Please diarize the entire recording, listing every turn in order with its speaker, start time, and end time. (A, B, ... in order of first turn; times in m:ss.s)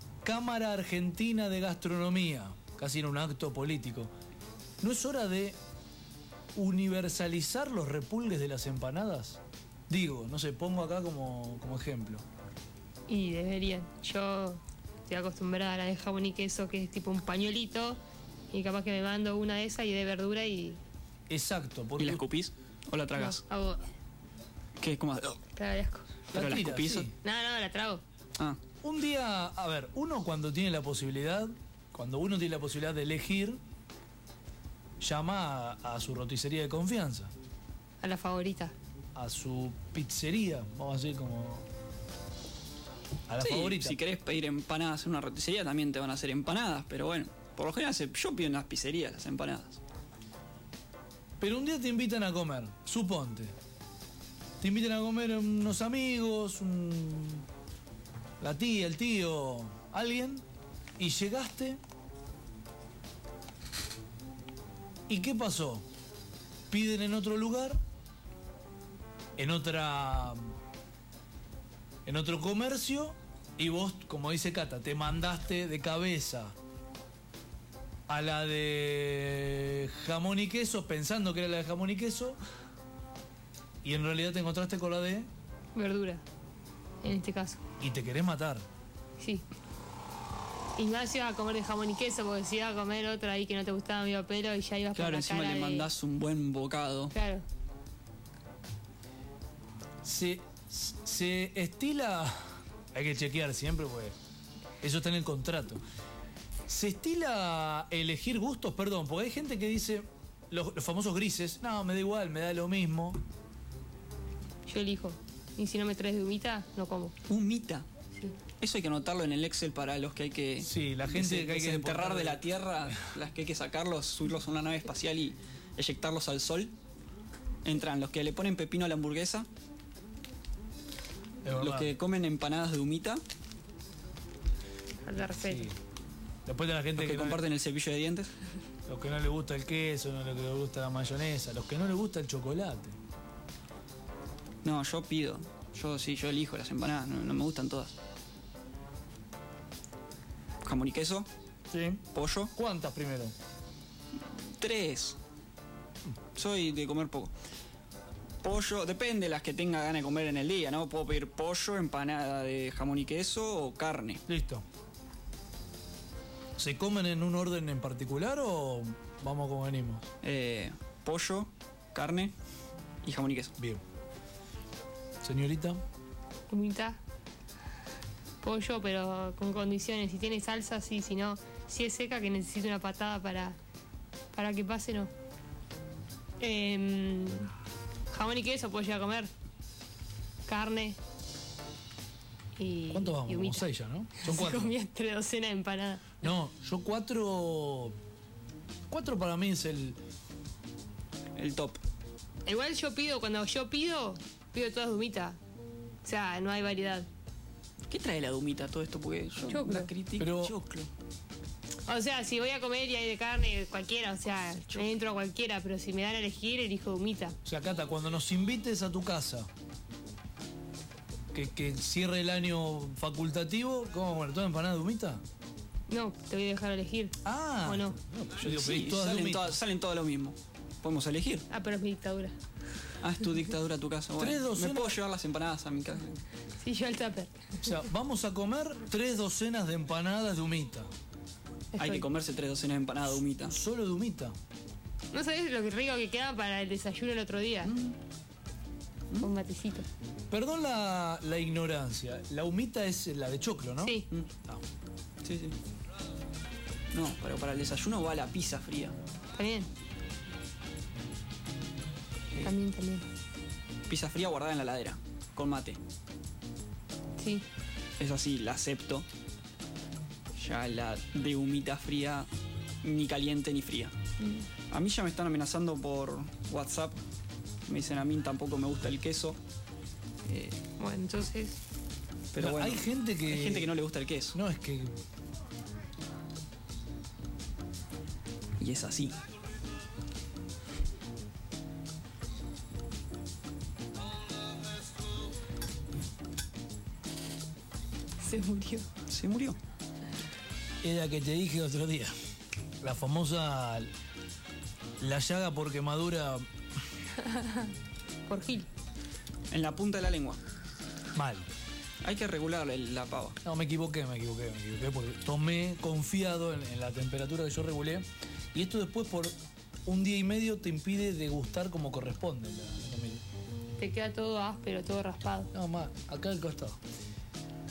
0:00.2-0:04.1 A
0:04.8-0:05.6 A
0:06.6-0:12.2 A
0:13.1-0:18.0 B
0:18.5-0:20.8 B
0:21.3-0:22.2 A
0:22.0-0:23.4 C
0:23.2-0:23.9 B
0:24.8-0:25.4 C
0:25.5-0:26.2 B
0:26.3-0:27.1 A
0:26.3-0:27.1 C
0:27.2-0:28.0 B
0:28.8-0:33.6 A
0:35.0-0:37.3 A
0:38.0-0:38.8 B
0:39.2-0:41.7 A
0:43.3-0:44.0 A
0:43.4-0:49.8 C
0:51.4-0:53.6 A
0:54.6-0:57.5 A
0:58.4-1:00.4 A
1:01.0-1:01.8 A
1:05.1-1:05.8 A
1:06.7-1:07.8 A
1:09.4-1:10.6 A
1:12.0-1:16.6 A
1:18.1-1:22.4 A
1:23.8-1:25.3 A
1:25.8-1:26.2 B
1:27.0-1:27.6 B
1:27.8-1:28.6 A
1:29.2-1:29.4 B
1:30.8-1:35.9 B
1:35.0-1:37.1 C
1:37.1-1:37.4 B
1:40.0-1:44.2 A
1:44.8-1:45.8 A
1:46.7-1:53.2 A
1:54.7-1:57.1 B
1:57.3-1:57.9 C
1:58.6-2:06.7 C
2:00.6-2:03.0 A
2:07.6-2:09.5 C
2:11.4-2:11.9 A
2:11.6-2:13.2 C
2:15.0-2:15.7 B
2:15.4-2:15.8 A
2:16.5-2:17.4 A
2:17.0-2:18.3 C
2:18.9-2:23.0 A
2:24.6-2:27.9 C
2:30.6-2:31.3 C
2:31.7-2:32.0 A
2:32.1-2:32.5 C
2:32.5-2:33.3 A
2:34.2-2:35.2 C
2:36.4-2:37.3 C
2:38.4-2:44.2 C
2:44.3-2:44.6 A
2:46.6-2:50.1 A
2:50.2-2:52.3 C
2:53.0-2:53.6 C
2:53.6-2:53.8 A
2:55.2-2:55.8 A
2:56.5-2:57.0 B
2:58.4-3:03.6 B
3:04.3-3:05.1 B
3:06.4-3:07.5 B
3:08.1-3:09.3 B
3:10.5-3:11.0 B
3:12.6-3:16.2 B
3:12.9-3:14.7 A
3:16.2-3:18.0 A
3:18.9-3:20.0 A
3:21.4-3:21.8 C
3:22.5-3:25.4 B
3:26.0-3:27.1 B
3:27.9-3:30.9 C
3:29.5-3:29.9 B
3:30.2-3:30.6 A
3:31.9-3:37.4 B
3:37.4-3:39.5 A
3:41.3-3:45.2 A
3:45.9-3:48.0 B
3:47.2-3:49.6 A
3:48.4-3:51.5 C
3:51.5-3:52.4 B
3:53.0-3:56.2 C
3:54.2-3:55.0 A
3:56.6-3:57.8 B
3:57.6-4:00.9 A
4:01.7-4:02.0 B
4:01.8-4:03.6 C
4:03.5-4:04.4 A
4:05.1-4:07.7 B
4:07.6-4:08.0 C
4:09.2-4:09.9 B
4:10.3-4:14.6 A
4:13.8-4:14.1 B
4:15.2-4:15.6 C
4:16.9-4:19.0 C
4:19.4-4:19.7 B
4:22.4-4:23.0 B
4:23.9-4:25.8 C
4:27.2-4:27.4 B
4:28.0-4:29.1 C
4:30.4-4:32.3 C
4:32.8-4:33.9 C
4:34.2-4:34.5 B
4:34.7-4:37.0 C
4:37.7-4:39.4 C
4:40.3-4:40.6 C
4:40.8-4:41.6 B
4:42.3-4:44.4 C
4:42.4-4:43.7 A
4:44.3-4:44.9 A
4:48.6-4:49.2 C
4:58.2-4:58.9 B
4:59.1-4:59.6 C
5:00.8-5:02.1 A
5:02.8-5:03.9 A
5:05.0-5:06.5 A
5:07.2-5:07.7 B
5:08.3-5:08.7 B
5:09.5-5:10.4 C
5:11.2-5:11.5 A
5:12.0-5:13.4 C
5:13.4-5:23.2 A
5:23.8-5:25.5 B
5:25.5-5:26.8 A